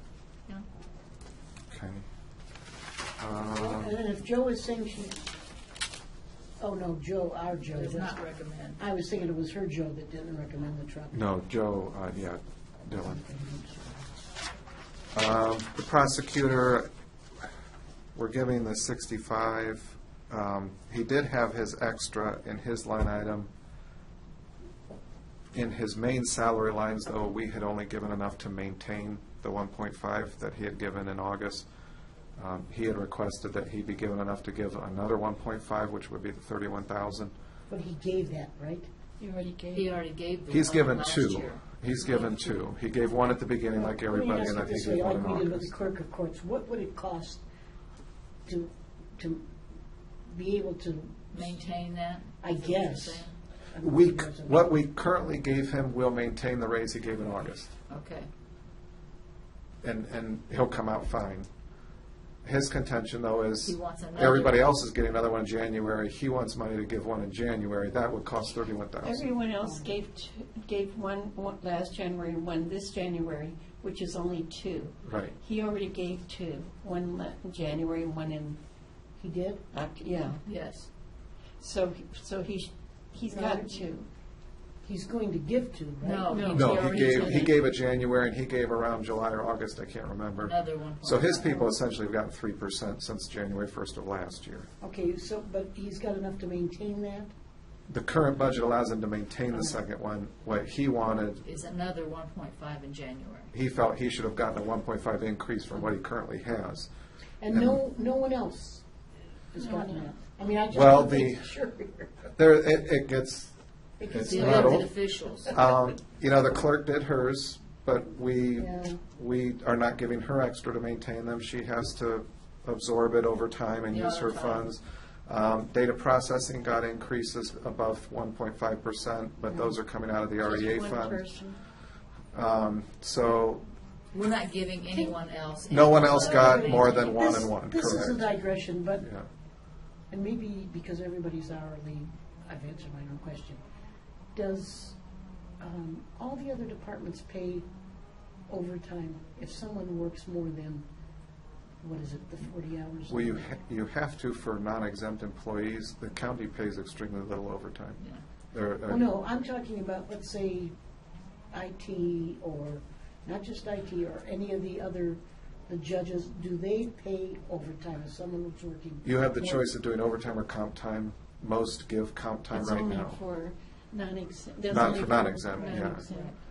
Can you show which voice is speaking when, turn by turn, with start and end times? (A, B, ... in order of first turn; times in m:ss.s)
0:01.7-0:02.1 A
0:03.2-0:04.0 A
0:03.4-0:05.2 B
0:06.6-0:08.2 B
0:07.7-0:08.8 C
0:08.8-0:11.2 B
0:11.1-0:13.2 A
0:12.9-0:14.0 B
0:15.1-0:16.9 A
0:18.2-0:23.5 A
0:25.5-0:31.6 A
0:32.4-0:37.3 A
0:37.7-0:38.9 B
0:39.2-0:40.0 D
0:39.7-0:42.5 C
0:40.5-0:45.7 A
0:43.7-0:47.4 B
0:48.5-0:49.4 B
0:50.3-0:51.6 B
0:51.3-0:53.4 C
0:52.4-0:54.7 B
0:53.8-0:57.7 A
0:57.9-0:58.3 C
0:59.8-1:01.5 A
1:02.4-1:09.3 A
1:03.6-1:04.7 C
1:09.0-1:18.6 D
1:09.6-1:09.9 B
1:15.0-1:15.4 A
1:19.2-1:19.6 B
1:19.7-1:20.4 D
1:20.4-1:20.9 C
1:21.6-1:24.1 D
1:23.3-1:23.9 B
1:24.8-1:26.5 B
1:26.0-1:27.6 C
1:26.3-1:27.6 D
1:26.5-1:34.7 A
1:30.4-1:31.7 C
1:34.8-1:37.3 B
1:37.9-1:41.4 A
1:39.5-1:39.8 B
1:41.4-1:43.5 C
1:43.5-1:46.9 A
1:47.4-1:48.8 B
1:47.5-1:47.8 A
1:49.5-1:52.3 B
1:49.6-1:50.1 D
1:50.7-1:51.5 A
1:52.4-1:53.5 A
1:54.0-1:54.9 B
1:54.1-1:54.9 A
1:54.2-1:55.6 C
1:55.5-2:11.2 A
1:58.6-1:59.0 B
2:03.9-2:04.7 C
2:10.4-2:11.6 D
2:12.3-2:13.6 A
2:14.1-2:17.1 C
2:15.7-2:18.3 A
2:16.0-2:19.1 B
2:19.0-2:19.3 A
2:20.1-2:23.6 B
2:24.4-2:25.0 B
2:25.6-2:27.6 B
2:28.5-2:30.8 B
2:31.8-2:33.5 B
2:33.1-2:38.0 A
2:38.5-2:39.1 A
2:38.9-2:40.7 B
2:41.5-2:49.7 B
2:49.0-2:53.2 A
2:52.5-2:56.4 D
2:54.7-2:56.1 A
2:55.5-2:56.3 C